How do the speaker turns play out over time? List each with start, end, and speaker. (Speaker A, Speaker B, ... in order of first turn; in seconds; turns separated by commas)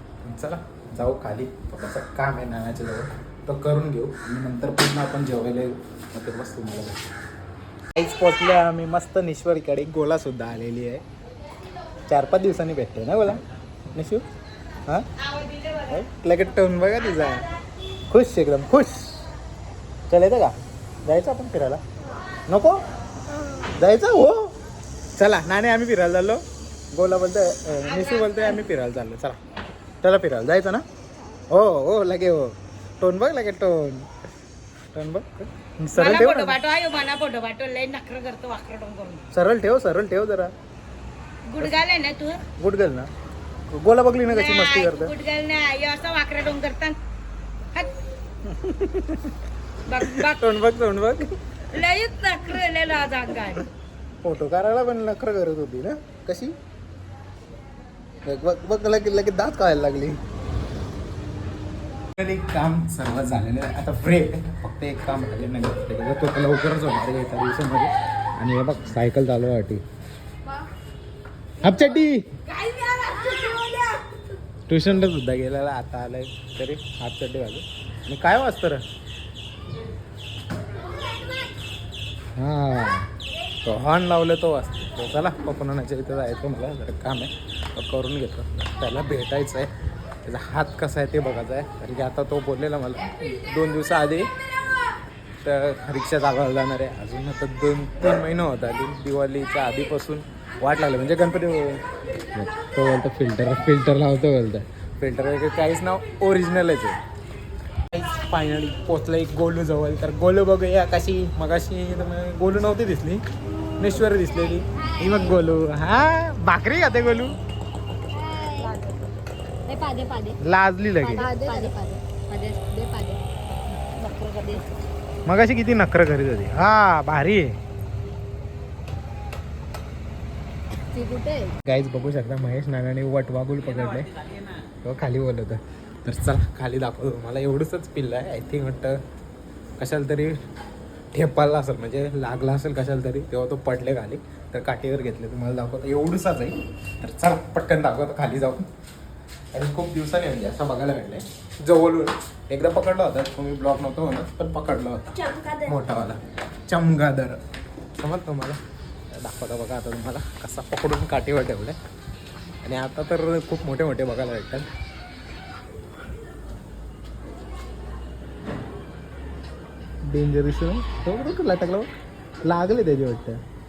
Speaker A: 0.2-7.0, Speaker A: 8.0-11.0, Speaker A: 12.1-13.4, Speaker A: 13.9-14.2, Speaker A: 15.8-17.5, Speaker A: 18.1-19.3, Speaker A: 20.1-21.8, Speaker A: 22.5-22.8, Speaker A: 23.8-24.5, Speaker A: 25.1-26.4, Speaker A: 26.9-29.4, Speaker A: 30.0-30.8, Speaker A: 31.5-34.1, Speaker A: 34.9-36.6, Speaker B: 36.0-39.2, Speaker A: 39.3-40.5, Speaker B: 41.5-42.4, Speaker A: 42.5-43.1, Speaker A: 43.7-45.2, Speaker B: 44.3-47.0, Speaker A: 48.5-49.3, Speaker B: 49.9-50.5, Speaker A: 49.9-51.3, Speaker B: 51.7-53.6, Speaker A: 54.2-56.5, Speaker A: 58.2-60.2, Speaker A: 62.1-69.8, Speaker A: 71.6-72.3, Speaker B: 73.0-73.8, Speaker A: 74.7-78.8, Speaker A: 82.4-83.1, Speaker A: 83.6-89.7, Speaker A: 90.2-94.3, Speaker A: 95.4-101.8, Speaker A: 102.3-107.0, Speaker A: 107.9-113.2, Speaker A: 113.8-117.4, Speaker C: 118.2-118.8, Speaker C: 119.7-120.4, Speaker A: 120.4-121.3, Speaker C: 121.0-123.2, Speaker C: 124.0-124.7, Speaker A: 125.3-127.5, Speaker C: 130.9-131.6, Speaker A: 131.7-134.1, Speaker A: 134.8-139.0, Speaker A: 139.8-140.4, Speaker A: 141.1-148.7, Speaker A: 149.5-157.4, Speaker A: 158.0-158.6, Speaker A: 159.1-161.8, Speaker A: 162.6-164.7, Speaker A: 170.1-171.9, Speaker A: 172.4-173.4